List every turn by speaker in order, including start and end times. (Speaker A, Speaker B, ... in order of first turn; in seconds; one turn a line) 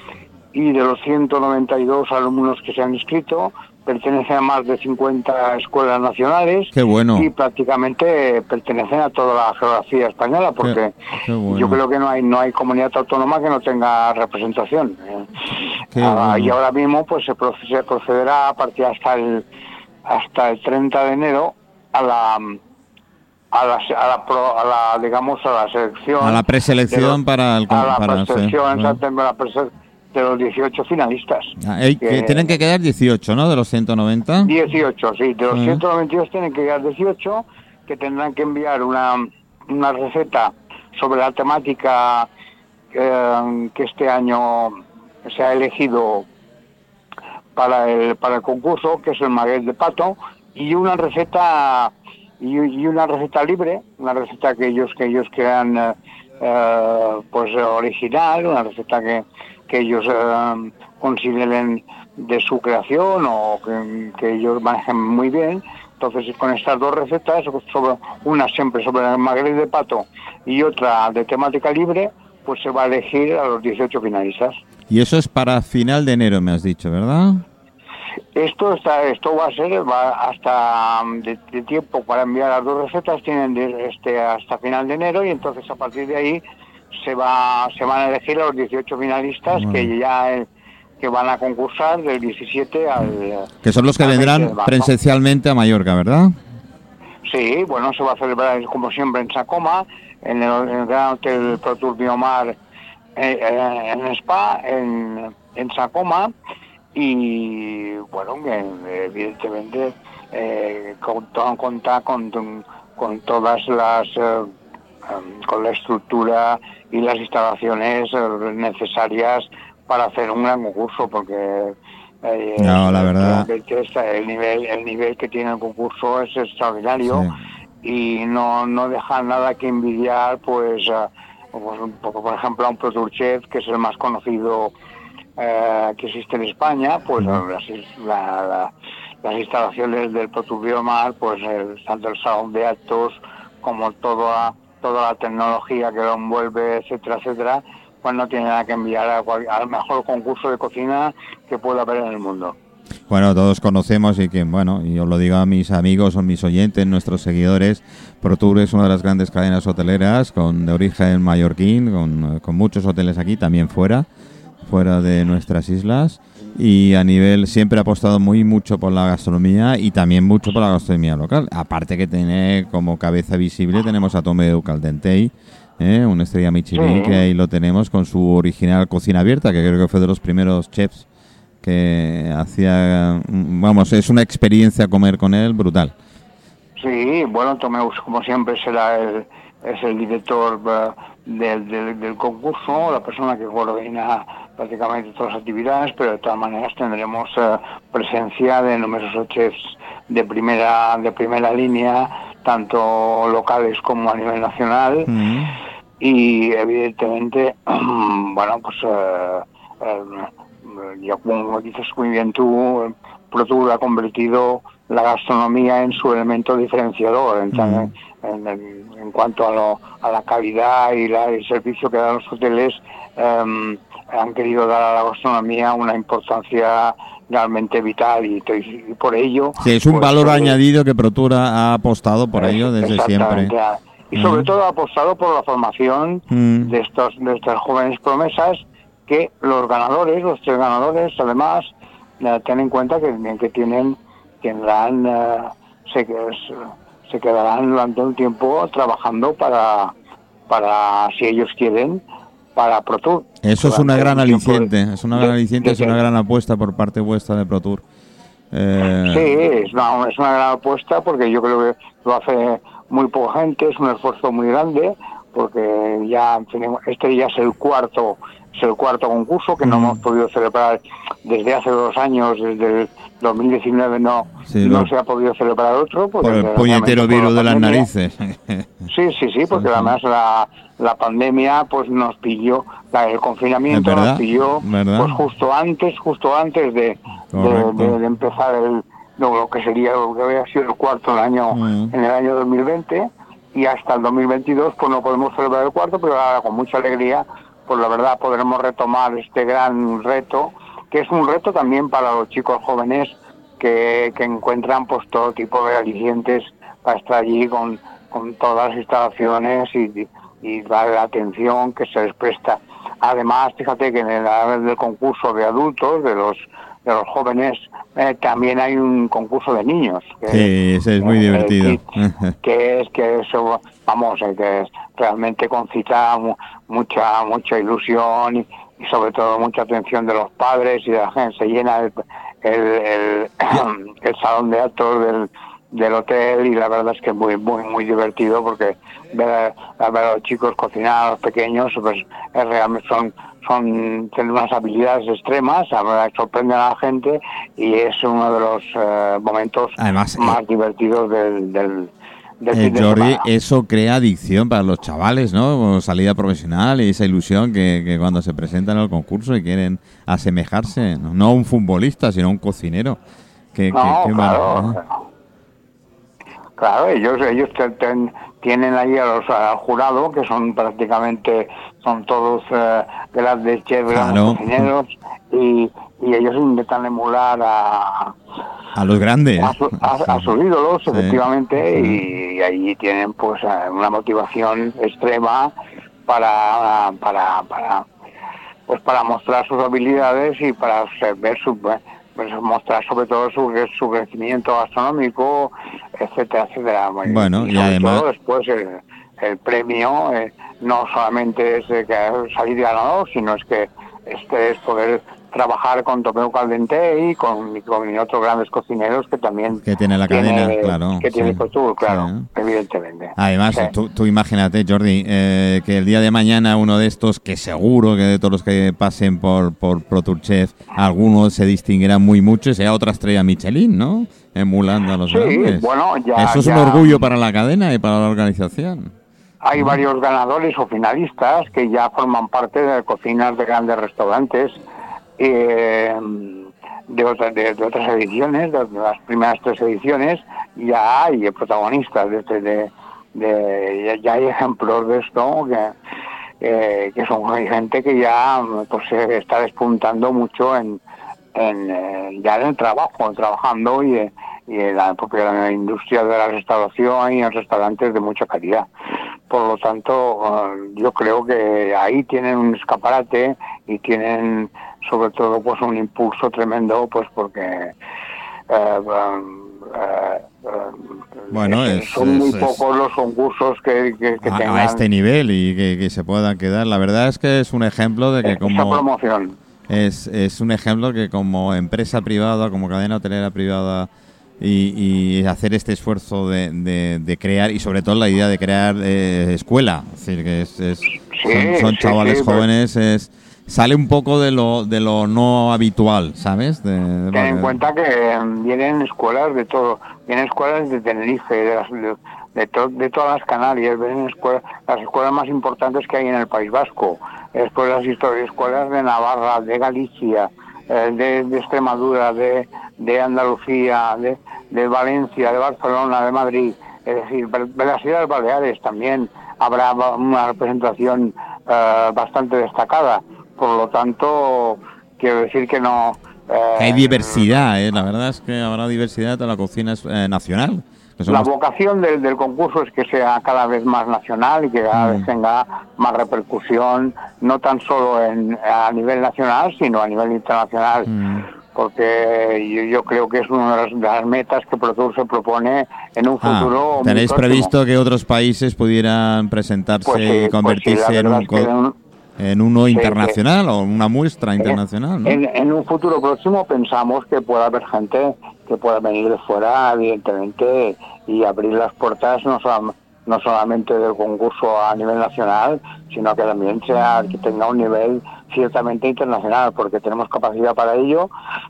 Speaker A: 0.5-10.9
Speaker B: 6.7-7.3
Speaker B: 10.6-11.8
Speaker A: 11.5-19.4
Speaker B: 15.9-16.5
Speaker A: 20.1-22.6
Speaker A: 23.5-27.2
Speaker B: 26.2-29.0
Speaker A: 27.7-32.6
Speaker B: 31.6-34.5
Speaker A: 34.4-42.3
Speaker B: 35.5-35.8
Speaker A: 42.9-46.3
Speaker A: 47.5-74.5
Speaker B: 74.9-77.4
Speaker A: 78.3-86.4
Speaker A: 86.9-90.5
Speaker B: 89.5-89.9
Speaker A: 91.0-94.9
Speaker B: 93.6-96.3
Speaker A: 97.3-102.5
Speaker A: 103.1-106.3
Speaker A: 106.9-114.5
Speaker A: 115.0-127.3
Speaker B: 122.6-123.5
Speaker B: 127.0-127.4
Speaker A: 127.8-134.7
Speaker A: 135.4-138.7
Speaker A: 139.2-152.6
Speaker B: 153.1-164.1
Speaker B: 164.7-181.1
Speaker A: 176.7-177.2
Speaker B: 181.6-185.9
Speaker A: 186.8-205.1
Speaker B: 205.1-205.5
Speaker A: 206.0-230.6
Speaker B: 217.5-217.9
Speaker B: 229.6-233.5
Speaker A: 232.3-241.7
Speaker B: 234.2-234.5
Speaker B: 236.3-236.7
Speaker A: 242.2-249.9
Speaker A: 250.5-252.0
Speaker A: 252.6-256.0
Speaker B: 253.4-257.8
Speaker B: 258.5-259.2
Speaker A: 259.0-277.9
Speaker B: 269.6-270.0
Speaker B: 274.4-274.9
Speaker B: 276.2-278.7
Speaker A: 278.9-321.8
Speaker B: 279.6-279.9
Speaker B: 283.7-285.2
Speaker B: 287.3-288.0
Speaker B: 291.5-291.9
Speaker B: 320.3-322.3
Speaker A: 322.4-353.2
Speaker B: 349.8-350.4
Speaker B: 352.5-363.0
Speaker B: 363.5-364.8
Speaker A: 363.7-364.9
Speaker A: 366.6-378.1
Speaker B: 373.9-374.7
Speaker B: 378.7-380.3
Speaker A: 379.4-385.5
Speaker B: 380.9-381.2
Speaker B: 381.7-382.0
Speaker A: 386.1-387.8
Speaker A: 388.7-413.7
Speaker B: 397.0-398.0
Speaker B: 409.6-412.3
Speaker B: 413.2-428.9
Speaker A: 425.1-427.0
Speaker A: 429.4-434.6
Speaker A: 435.2-445.7
Speaker A: 446.4-450.8
Speaker A: 451.3-458.7
Speaker A: 459.3-467.7
Speaker A: 468.5-474.8
Speaker B: 471.3-472.6
Speaker B: 474.2-478.8
Speaker A: 478.2-479.4
Speaker B: 479.7-483.9
Speaker B: 484.4-497.6
Speaker A: 491.1-492.4
Speaker A: 497.1-527.3
Speaker B: 526.6-531.3
Speaker A: 531.1-540.9
Speaker B: 534.7-535.0
Speaker B: 540.9-541.3
Speaker A: 541.5-547.5
Speaker B: 546.2-551.5
Speaker A: 549.9-551.7
Speaker B: 552.2-555.2
Speaker A: 552.7-553.2
Speaker A: 554.4-571.1